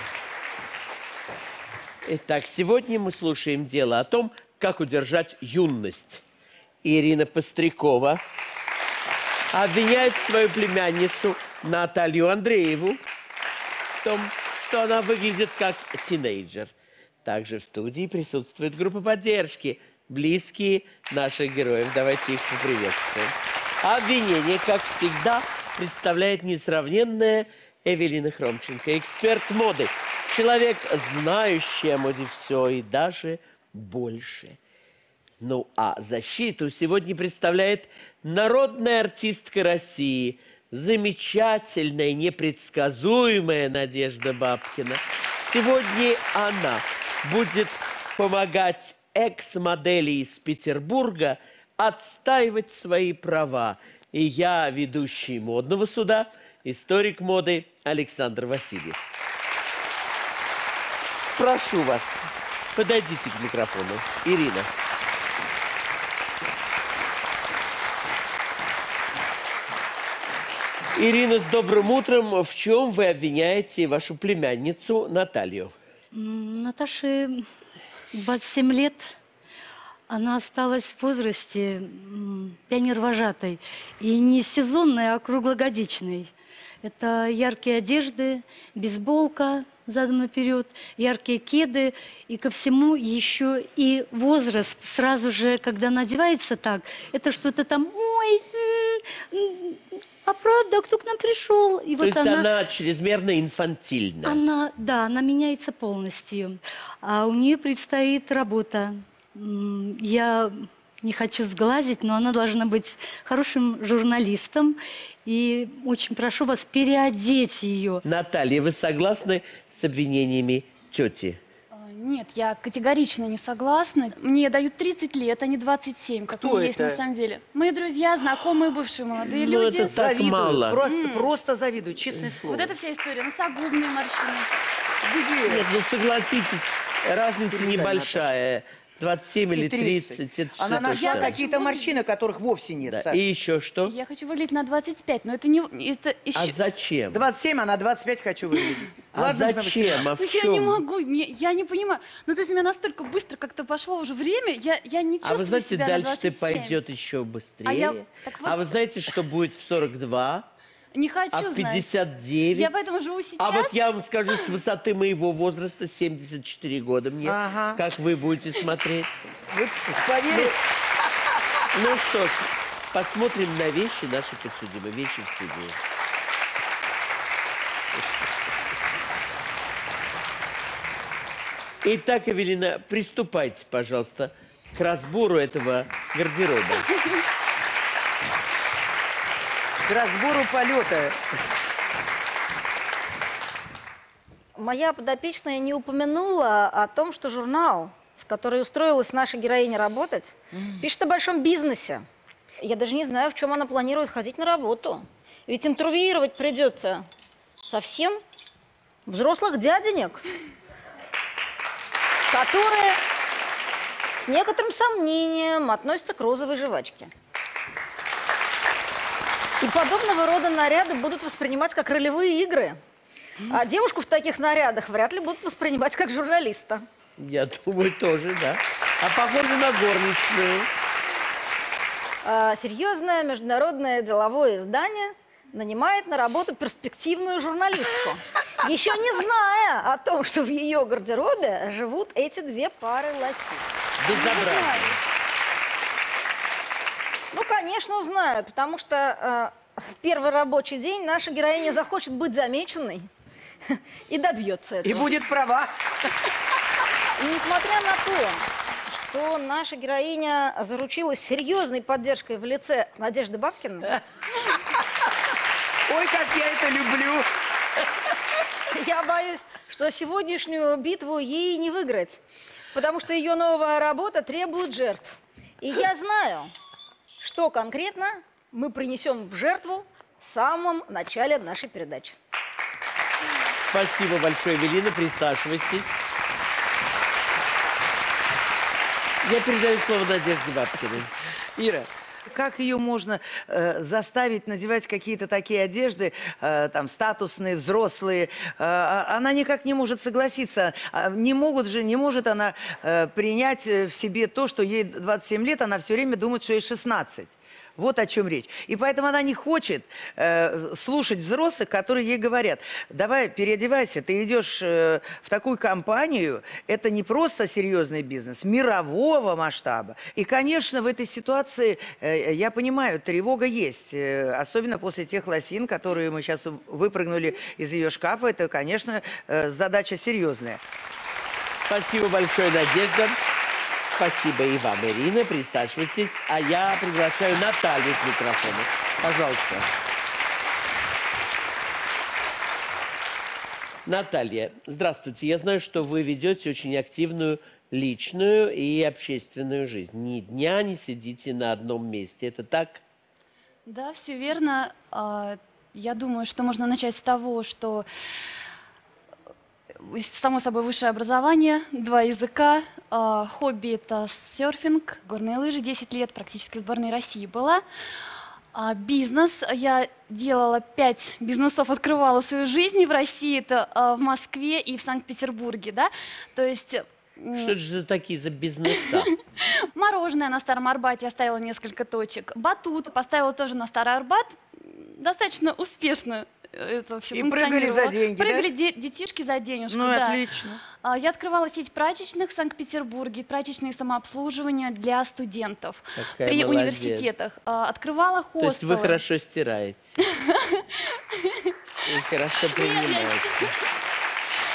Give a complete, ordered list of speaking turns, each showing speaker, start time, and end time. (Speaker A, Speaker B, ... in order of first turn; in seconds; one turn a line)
Speaker A: 2.0-6.2
Speaker A: 6.8-8.2
Speaker A: 9.5-13.0
Speaker A: 14.0-16.7
Speaker A: 17.2-34.6
Speaker A: 35.4-59.0
Speaker A: 61.4-64.7
Speaker A: 70.9-75.7
Speaker B: 76.1-77.5
Speaker B: 78.1-79.1
Speaker B: 80.1-86.3
Speaker B: 86.8-102.5
Speaker A: 102.0-104.4
Speaker B: 104.2-118.0
Speaker A: 118.0-121.4
Speaker C: 121.7-130.0
Speaker D: 126.3-127.0
Speaker A: 129.3-130.8
Speaker D: 129.9-132.8
Speaker C: 130.8-131.3
Speaker C: 132.5-134.5
Speaker D: 135.0-135.6
Speaker A: 135.4-141.4
Speaker D: 137.5-138.3
Speaker D: 139.5-143.2
Speaker C: 140.8-141.9
Speaker A: 142.8-143.9
Speaker C: 143.8-146.6
Speaker A: 146.3-147.2
Speaker D: 147.1-150.1
Speaker A: 149.1-150.8
Speaker C: 150.2-156.8
Speaker A: 155.2-160.5
Speaker C: 157.6-158.6
Speaker C: 160.9-161.9
Speaker A: 161.3-162.8
Speaker C: 162.5-163.7
Speaker A: 163.4-169.3
Speaker D: 167.2-167.8
Speaker D: 169.5-171.6
Speaker A: 170.3-170.6
Speaker A: 171.7-175.8
Speaker A: 181.8-186.9
Speaker D: 189.8-191.2
Speaker E: 194.6-202.0
Speaker D: 200.5-200.8
Speaker E: 202.6-207.1
Speaker E: 207.6-208.2
Speaker E: 209.1-210.2
Speaker E: 212.3-213.0
Speaker E: 214.2-217.1
Speaker E: 219.6-222.8
Speaker E: 223.4-226.8
Speaker A: 227.2-230.7
Speaker E: 232.2-243.6
Speaker A: 244.0-244.9
Speaker C: 244.1-244.9
Speaker E: 247.3-253.1
Speaker E: 253.7-255.1
Speaker D: 254.8-255.7
Speaker E: 257.2-264.0
Speaker D: 265.9-267.3
Speaker E: 268.7-272.2
Speaker E: 272.7-276.5
Speaker E: 277.2-282.1
Speaker A: 283.6-286.0
Speaker A: 289.2-291.1
Speaker D: 291.6-330.6
Speaker A: 331.7-333.2
Speaker A: 333.9-339.7
Speaker A: 343.9-352.8
Speaker C: 353.6-357.8
Speaker C: 359.8-367.6
Speaker C: 368.5-377.5
Speaker A: 377.3-379.1
Speaker C: 379.8-390.2
Speaker D: 387.1-388.5
Speaker D: 389.7-390.6
Speaker C: 390.8-399.0
Speaker A: 396.0-397.1
Speaker A: 398.4-400.0
Speaker C: 400.3-401.5
Speaker A: 401.8-403.6
Speaker C: 402.5-403.4